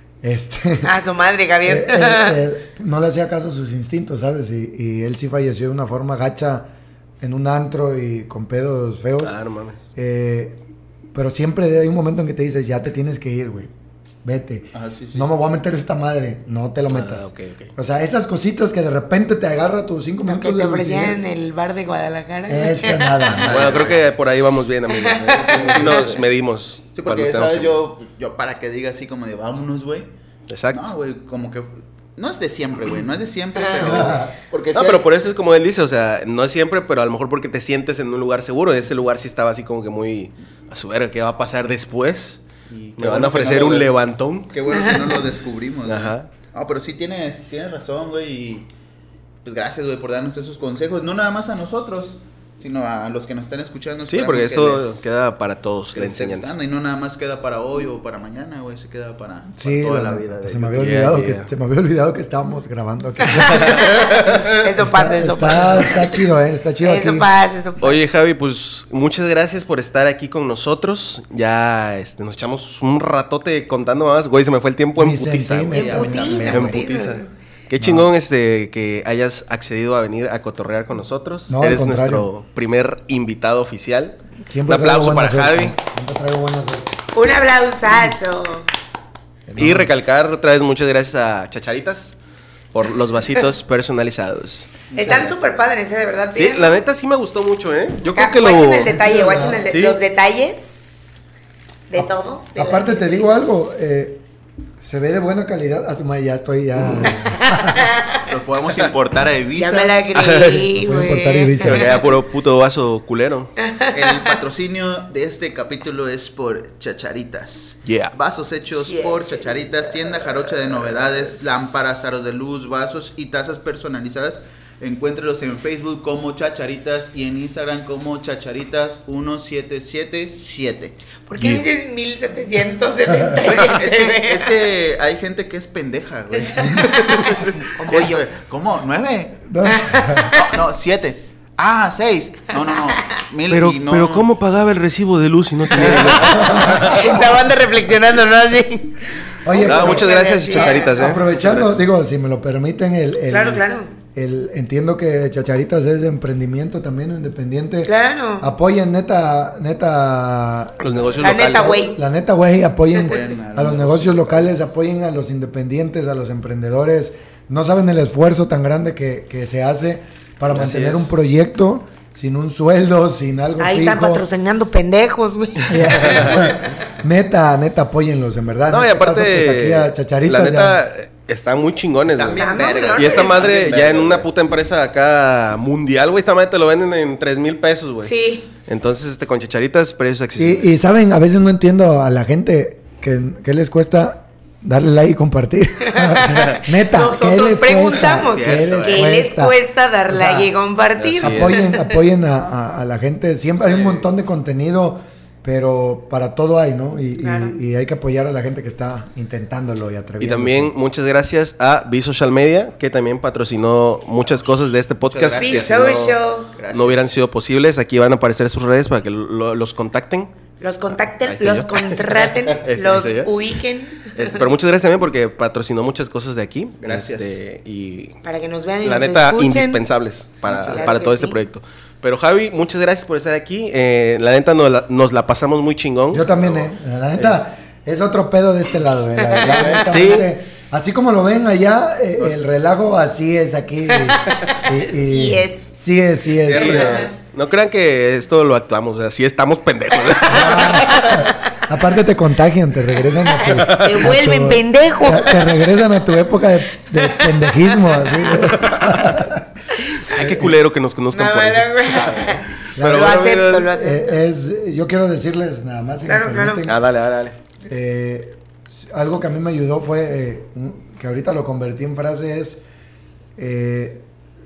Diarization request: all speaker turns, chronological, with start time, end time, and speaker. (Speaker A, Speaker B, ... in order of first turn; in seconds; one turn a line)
Speaker A: 0.2-0.9
Speaker B: 0.8-2.4
Speaker A: 1.6-6.7
Speaker A: 7.2-9.4
Speaker C: 9.2-9.8
Speaker A: 9.9-10.6
Speaker A: 11.1-13.7
Speaker A: 14.2-21.3
Speaker D: 14.7-15.3
Speaker C: 16.9-17.7
Speaker B: 20.2-23.7
Speaker A: 22.5-23.8
Speaker D: 23.1-24.1
Speaker C: 23.5-27.8
Speaker B: 24.9-26.2
Speaker D: 25.4-26.1
Speaker D: 26.9-30.1
Speaker C: 30.5-30.9
Speaker D: 30.7-35.0
Speaker B: 33.6-34.0
Speaker A: 33.8-34.3
Speaker C: 34.7-42.4
Speaker D: 42.7-43.9
Speaker C: 43.0-44.5
Speaker D: 44.5-48.7
Speaker C: 45.9-46.3
Speaker D: 49.4-54.9
Speaker C: 54.1-56.5
Speaker D: 55.9-61.0
Speaker A: 59.6-63.8
Speaker C: 60.8-61.5
Speaker B: 63.2-66.2
Speaker D: 63.8-64.4
Speaker A: 64.8-67.3
Speaker B: 66.8-68.0
Speaker C: 67.8-75.9
Speaker A: 75.0-76.8
Speaker D: 75.7-76.6
Speaker B: 75.7-77.3
Speaker C: 76.5-85.8
Speaker A: 77.8-78.1
Speaker A: 81.5-82.3
Speaker A: 84.5-87.0
Speaker B: 87.1-88.7
Speaker A: 87.9-88.2
Speaker A: 89.5-89.9
Speaker C: 89.6-92.2
Speaker C: 92.7-94.7
Speaker D: 94.9-95.5
Speaker B: 94.9-96.8
Speaker C: 96.3-98.9
Speaker B: 98.1-101.2
Speaker A: 98.8-99.7
Speaker C: 99.7-100.0
Speaker B: 101.9-103.7
Speaker A: 102.0-104.2
Speaker A: 104.8-107.9
Speaker C: 106.8-107.1
Speaker B: 107.0-108.2
Speaker D: 108.3-110.0
Speaker B: 109.5-112.1
Speaker C: 110.1-110.6
Speaker A: 110.7-112.0
Speaker C: 111.5-113.5
Speaker B: 113.6-114.3
Speaker D: 113.9-130.9
Speaker C: 117.8-118.1
Speaker B: 118.7-119.6
Speaker B: 131.3-134.5
Speaker C: 131.4-131.6
Speaker A: 133.1-133.4
Speaker D: 133.3-139.4
Speaker A: 136.6-136.9
Speaker B: 136.9-138.2
Speaker A: 139.5-140.4
Speaker B: 139.7-140.5
Speaker D: 140.3-144.2
Speaker C: 143.5-147.0
Speaker D: 145.7-147.3
Speaker A: 145.8-146.9
Speaker B: 146.3-151.2
Speaker A: 149.4-174.3
Speaker C: 149.6-151.8
Speaker B: 153.3-153.9
Speaker B: 157.8-158.5
Speaker C: 160.8-161.8
Speaker B: 161.2-161.9
Speaker D: 163.0-164.5
Speaker C: 170.5-171.1
Speaker B: 173.6-176.5
Speaker A: 175.7-180.8
Speaker C: 175.8-176.6
Speaker C: 178.7-188.1
Speaker D: 182.1-184.3
Speaker B: 182.3-183.5
Speaker B: 188.0-188.5
Speaker C: 188.7-190.7
Speaker A: 190.4-200.5
Speaker B: 195.9-201.9
Speaker C: 198.0-199.0
Speaker D: 198.6-199.0
Speaker C: 201.0-201.8
Speaker A: 201.2-210.7
Speaker D: 203.6-204.0
Speaker B: 207.2-207.5
Speaker C: 210.2-216.1
Speaker D: 215.0-217.1
Speaker B: 215.4-216.5
Speaker C: 216.7-220.3
Speaker B: 220.6-224.4
Speaker C: 220.9-223.5
Speaker C: 224.1-228.2
Speaker D: 226.8-227.4
Speaker B: 228.2-229.8
Speaker C: 228.8-236.6
Speaker D: 230.4-230.9
Speaker B: 230.7-231.4
Speaker A: 236.1-247.0
Speaker B: 239.3-240.1
Speaker D: 239.3-239.9
Speaker C: 239.9-240.3
Speaker D: 242.2-242.6
Speaker B: 243.9-245.7
Speaker D: 246.4-247.1
Speaker C: 246.5-251.0
Speaker B: 246.6-247.1
Speaker B: 250.1-251.3
Speaker A: 250.3-259.4
Speaker B: 253.3-255.5
Speaker C: 253.5-254.1
Speaker B: 257.0-258.4
Speaker C: 258.5-259.2
Speaker C: 260.0-263.7
Speaker A: 260.1-260.5
Speaker B: 261.1-264.2
Speaker D: 261.9-262.3
Speaker A: 262.8-266.8
Speaker B: 266.1-266.6
Speaker C: 266.6-267.4
Speaker A: 267.6-272.6
Speaker A: 273.4-274.0